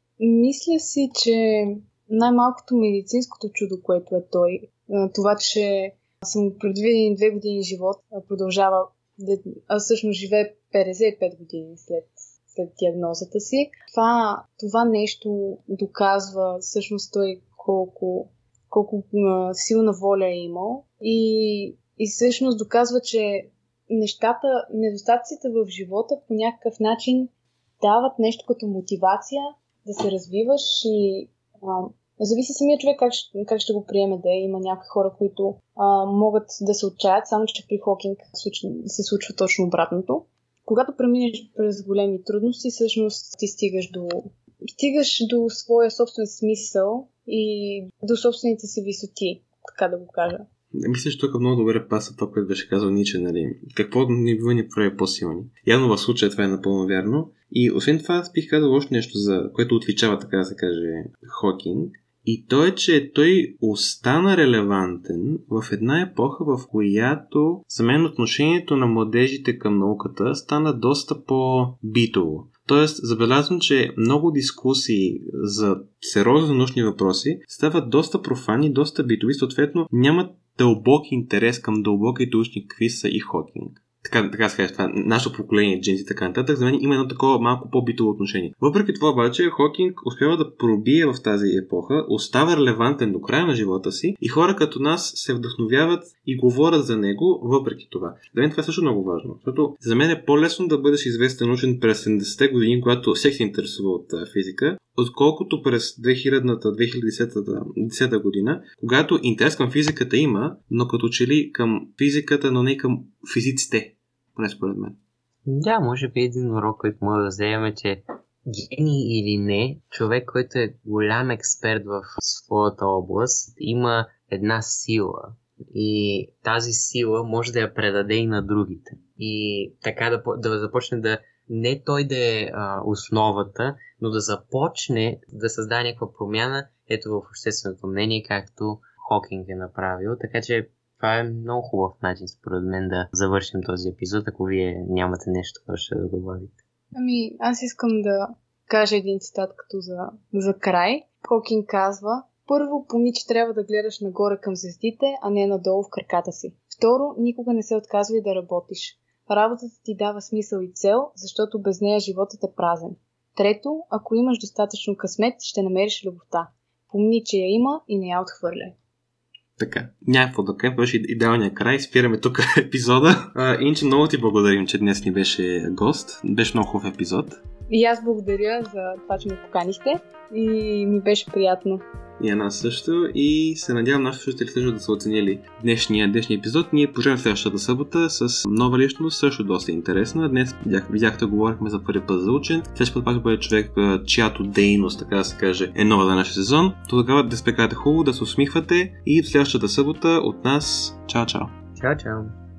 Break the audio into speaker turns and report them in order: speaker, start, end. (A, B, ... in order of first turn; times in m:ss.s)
0:00.2-0:50.5 A
0:50.7-1:55.0 B
1:55.4-2:26.6 C
2:26.9-2:48.7 A
2:49.6-2:57.4 B
2:57.7-3:01.8 A
3:02.2-3:21.5 B
3:21.8-3:22.3 C